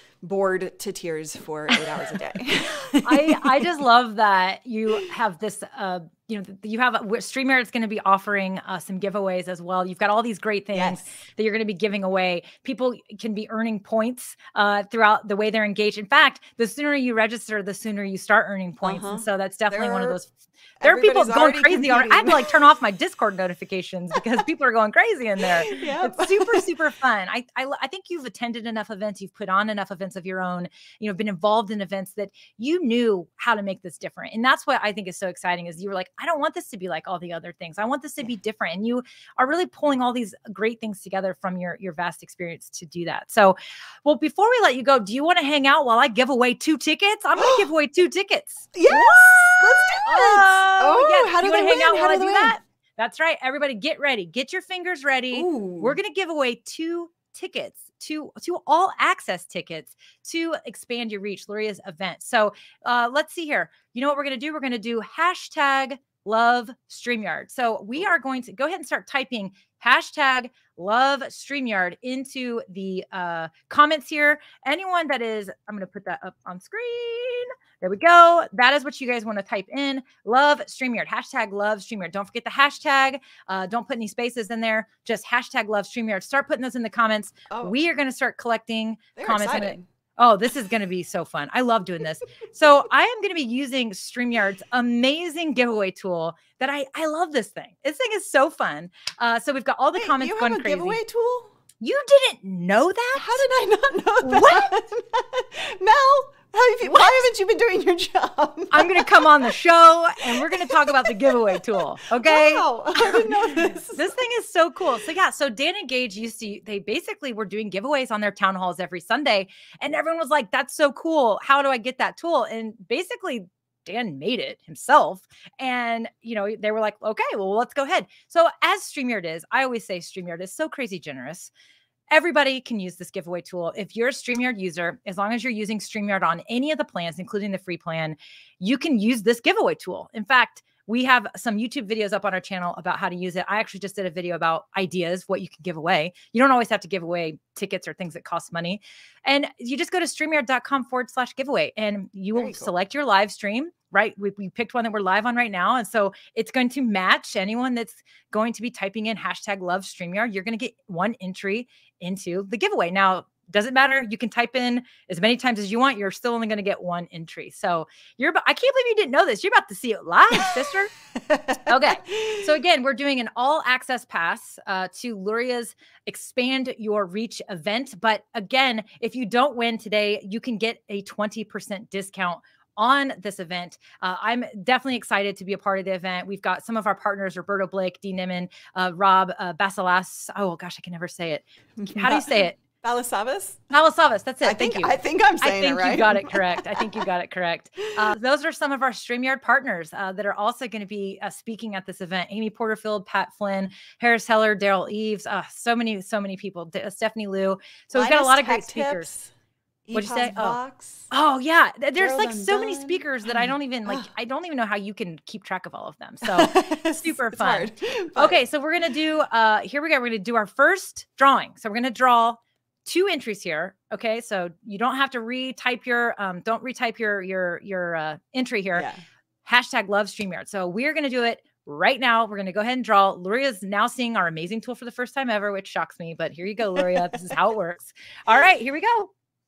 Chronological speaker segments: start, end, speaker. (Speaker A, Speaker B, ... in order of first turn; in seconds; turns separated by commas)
Speaker A: 0.2-3.7, Speaker B: 3.0-101.0, Speaker A: 10.7-11.1, Speaker A: 18.8-20.2, Speaker A: 20.8-22.5, Speaker A: 25.5-26.7, Speaker A: 47.4-47.7, Speaker A: 48.7-52.6, Speaker A: 55.3-56.0, Speaker A: 87.5-87.7, Speaker A: 89.2-89.8, Speaker A: 100.0-101.5, Speaker B: 101.8-103.4, Speaker A: 103.1-109.5, Speaker B: 104.2-104.7, Speaker B: 106.8-107.2, Speaker B: 108.7-131.5, Speaker A: 110.2-114.1, Speaker B: 132.1-170.9, Speaker A: 152.3-152.7, Speaker A: 171.2-172.4, Speaker B: 171.7-192.6, Speaker A: 191.8-193.7, Speaker B: 193.7-209.1, Speaker A: 194.4-197.1, Speaker A: 207.9-209.3, Speaker A: 209.8-211.1, Speaker B: 209.9-210.6, Speaker B: 211.1-228.9, Speaker A: 212.0-214.1, Speaker A: 216.2-218.4, Speaker A: 228.7-229.0, Speaker B: 229.4-239.1, Speaker A: 236.7-237.1